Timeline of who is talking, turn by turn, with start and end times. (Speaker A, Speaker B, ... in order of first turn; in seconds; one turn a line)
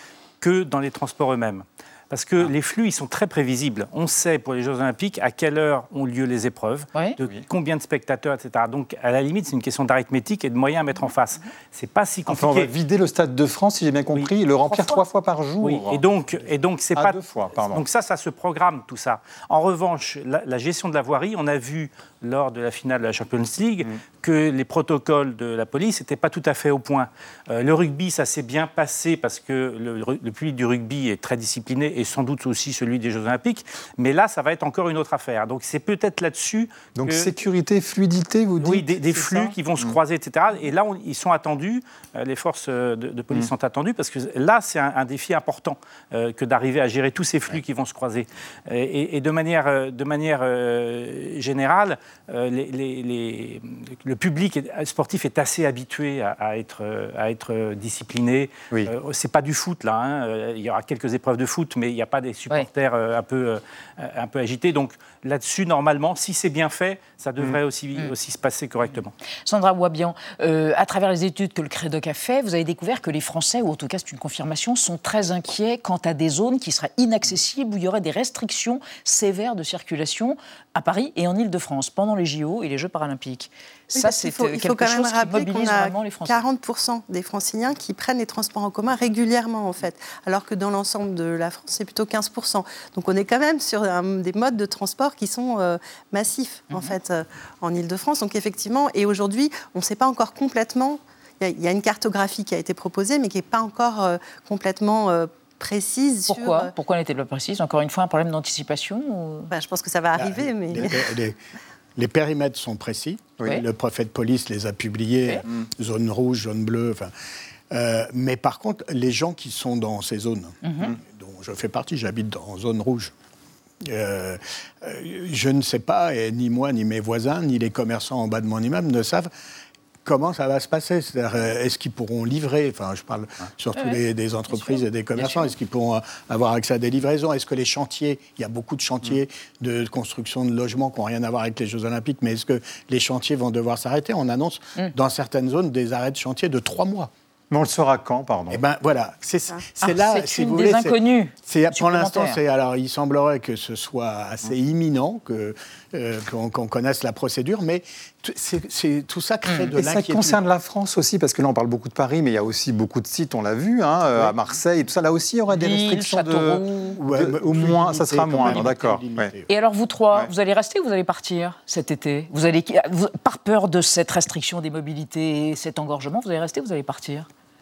Speaker A: 0.4-12.7
Speaker B: 12.3-16.1
Speaker C: 14.7-15.0
Speaker A: 15.6-17.2
Speaker B: 16.9-17.8
Speaker A: 17.7-37.3
Speaker B: 36.9-40.0
Speaker A: 38.6-69.1
Speaker C: 68.9-86.4
Speaker D: 83.9-106.7
Speaker C: 96.7-97.0
Speaker C: 106.3-109.5
Speaker D: 109.5-111.0
Speaker E: 110.2-111.4
Speaker E: 112.0-117.1
Speaker E: 117.7-123.1
Speaker C: 120.6-120.9
Speaker E: 123.8-129.3
Speaker E: 130.0-147.1
Speaker C: 134.5-135.5
Speaker B: 147.5-148.6
Speaker E: 148.5-160.4
Speaker C: 149.8-152.4
Speaker C: 159.5-159.7
Speaker B: 159.8-169.3
Speaker C: 165.5-167.0
Speaker E: 167.0-169.5
Speaker C: 169.5-177.3